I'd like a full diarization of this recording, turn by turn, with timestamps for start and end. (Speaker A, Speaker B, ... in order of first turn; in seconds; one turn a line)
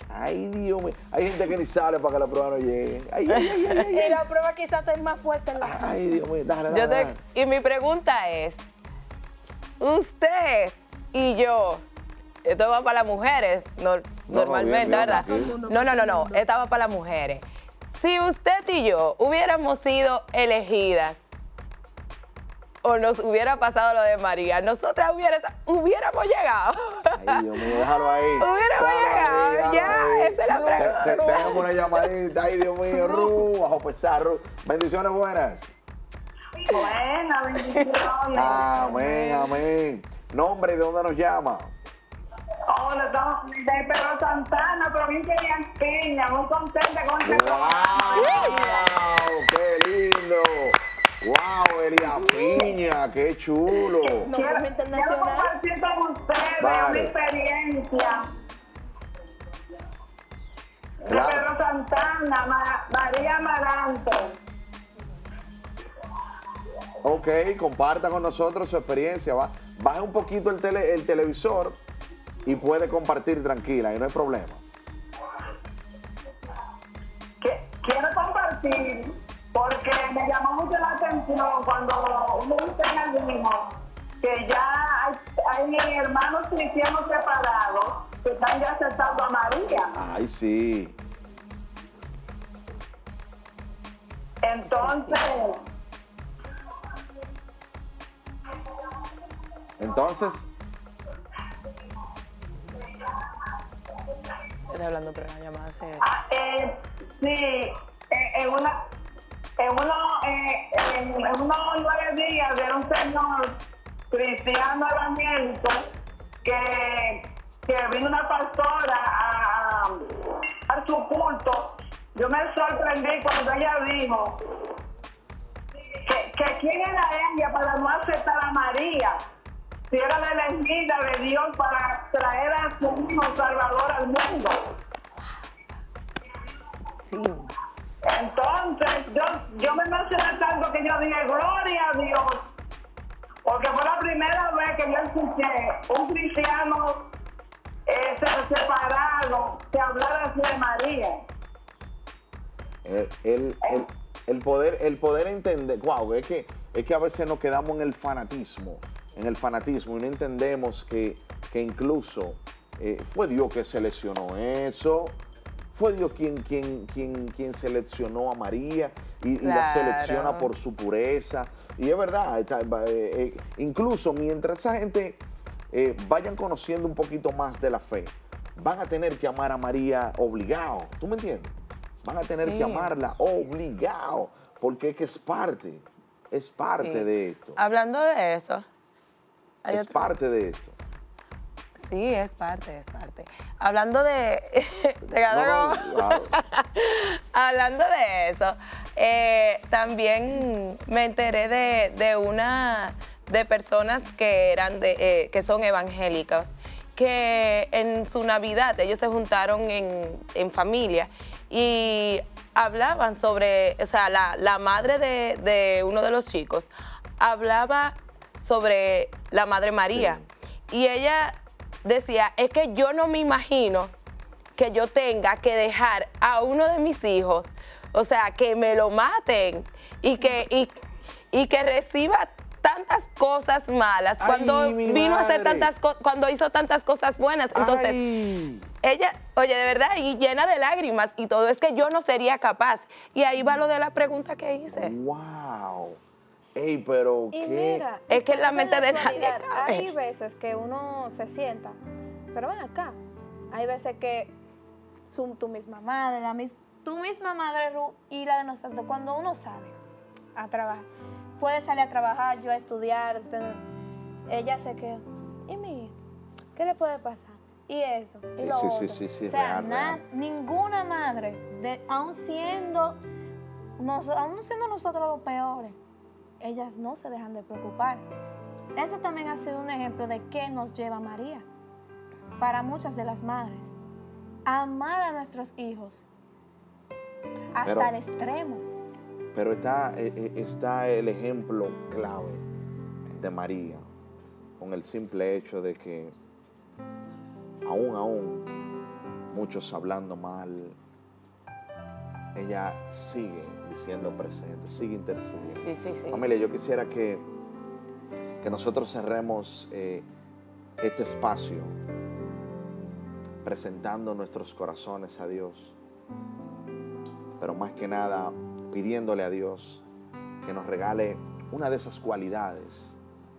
Speaker A: 0.1-4.2
Speaker B: 3.9-6.2
Speaker A: 5.6-7.2
Speaker C: 6.7-8.6
Speaker C: 9.8-11.8
Speaker C: 12.4-21.3
Speaker A: 14.3-15.6
Speaker B: 15.0-16.4
Speaker C: 22.8-32.0
Speaker A: 27.1-35.7
Speaker C: 32.9-33.5
Speaker D: 36.5-39.2
Speaker A: 38.3-41.7
Speaker D: 42.7-48.6
Speaker A: 47.2-54.3
Speaker B: 47.8-48.9
Speaker D: 53.9-58.2
Speaker B: 54.2-55.5
Speaker A: 56.6-57.1
Speaker D: 61.0-64.3
Speaker A: 61.0-61.5
Speaker A: 67.0-71.8
Speaker A: 72.4-74.6
Speaker D: 77.4-90.0
Speaker A: 89.9-91.0
Speaker D: 94.4-95.6
Speaker C: 94.6-95.3
Speaker A: 99.8-100.5
Speaker C: 104.7-106.1
Speaker D: 106.0-108.8
Speaker D: 109.6-113.6
Speaker D: 114.1-115.8
Speaker D: 116.4-120.0
Speaker D: 120.7-124.4
Speaker D: 126.0-129.2
Speaker D: 129.9-134.6
Speaker C: 137.1-137.5
Speaker D: 138.1-142.4
Speaker D: 143.4-147.1
Speaker D: 147.9-151.2
Speaker A: 152.8-165.2
Speaker D: 153.6-153.9
Speaker A: 165.7-181.5
Speaker C: 169.4-170.5
Speaker A: 182.0-187.6
Speaker C: 182.3-182.9
Speaker C: 186.7-188.6
Speaker C: 189.6-190.1
Speaker A: 189.7-190.8
Speaker C: 191.8-223.9
Speaker A: 195.3-196.3
Speaker A: 219.9-220.3
Speaker C: 224.6-230.7
Speaker C: 231.3-238.0
Speaker A: 234.2-235.7
Speaker A: 237.5-238.7
Speaker C: 238.8-244.9
Speaker A: 244.7-246.0
Speaker A: 246.5-247.8
Speaker B: 247.3-251.8
Speaker C: 248.1-249.9
Speaker B: 252.3-253.0
Speaker B: 253.5-254.3
Speaker B: 255.1-259.8
Speaker B: 260.3-260.9
Speaker B: 261.4-263.6
Speaker B: 264.3-265.9
Speaker B: 266.6-273.0
Speaker A: 268.4-270.0
Speaker B: 273.8-275.8
Speaker B: 276.4-278.0
Speaker B: 278.7-281.4
Speaker B: 282.4-283.7
Speaker B: 284.4-286.0
Speaker B: 287.5-288.6
Speaker A: 287.6-287.9
Speaker A: 289.3-292.4
Speaker A: 293.1-293.8
Speaker A: 294.6-296.1
Speaker A: 297.6-298.5
Speaker A: 299.3-300.8
Speaker A: 302.3-307.3
Speaker C: 305.6-306.2
Speaker A: 308.4-310.1
Speaker A: 310.8-311.8
Speaker A: 313.4-315.8
Speaker A: 317.4-319.8
Speaker A: 320.4-323.0